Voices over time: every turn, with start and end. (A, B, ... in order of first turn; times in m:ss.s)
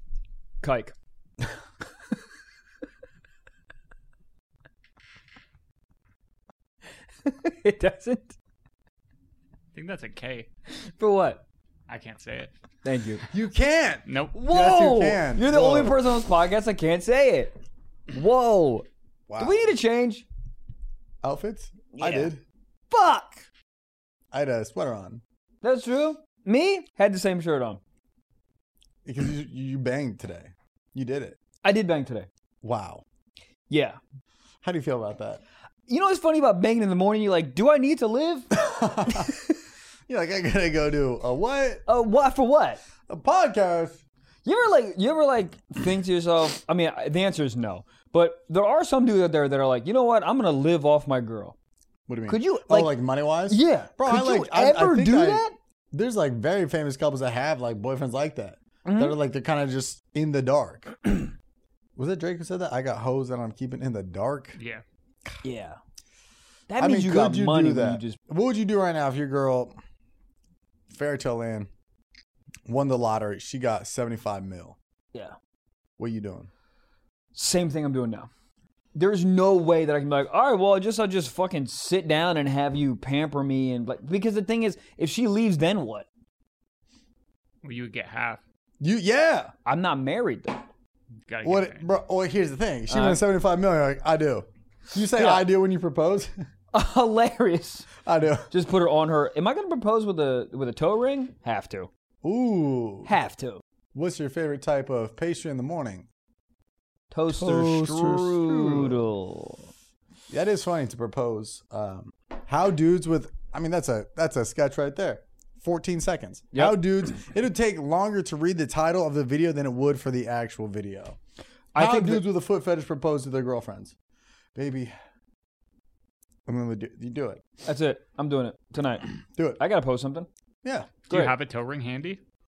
0:00.6-0:01.0 A
0:07.2-0:08.4 A
0:09.8-0:10.5 B
0:10.8-0:11.4 A
0:11.9-0:12.5 B
0:12.8-0:13.2 A
0:13.3-0:16.1 C
0:14.1-0:14.4 B
0:14.3-0:17.5 A
0:18.1-0:18.9 A
0:19.3-0:19.8 C
0:19.4-0:20.3 A
0:21.2-0:22.4 C
0:22.0-0:22.4 A
0:22.9-0:23.4 A
0:24.3-0:25.2 C
0:25.6-0:27.8 A
0:29.0-0:31.4 C
0:31.6-0:32.3 A
0:32.6-0:33.0 C
0:33.7-0:34.0 A
0:34.6-0:35.4 C
0:35.9-0:38.5 A
0:38.5-0:39.3 C
0:39.1-0:39.5 A
0:40.1-0:41.8 C
0:41.9-0:42.8 A
0:43.1-0:44.0 C
0:44.4-0:51.6 A
0:52.1-1:01.3 C
0:52.3-0:55.6 A
0:58.8-0:59.2 A
1:02.0-1:04.6 C
1:04.6-1:04.8 B
1:05.4-1:05.8 A
1:06.7-1:08.2 A
1:06.8-1:09.7 C
1:10.9-1:11.7 C
1:12.7-1:14.8 C
1:16.0-1:16.5 C
1:17.4-1:18.3 A
1:19.0-1:26.1 A
1:27.6-1:28.4 B
1:28.8-1:29.5 C
1:29.6-1:30.6 A
1:31.3-1:31.8 B
1:31.4-1:36.3 C
1:32.9-1:33.2 A
1:35.1-1:35.5 A
1:36.7-1:37.9 A
1:38.0-1:38.5 C
1:38.5-1:41.9 A
1:42.2-1:43.1 C
1:43.1-1:43.6 A
1:43.9-1:46.1 C
1:47.1-1:49.7 A
1:47.3-1:49.0 C
1:50.3-2:01.2 C
1:56.5-1:56.8 A
2:01.7-2:02.3 A
2:01.8-2:04.0 C
2:04.6-2:04.9 C
2:06.5-2:07.4 C
2:07.7-2:10.3 A
2:10.6-2:10.9 C
2:11.1-2:12.2 B
2:11.1-2:11.4 A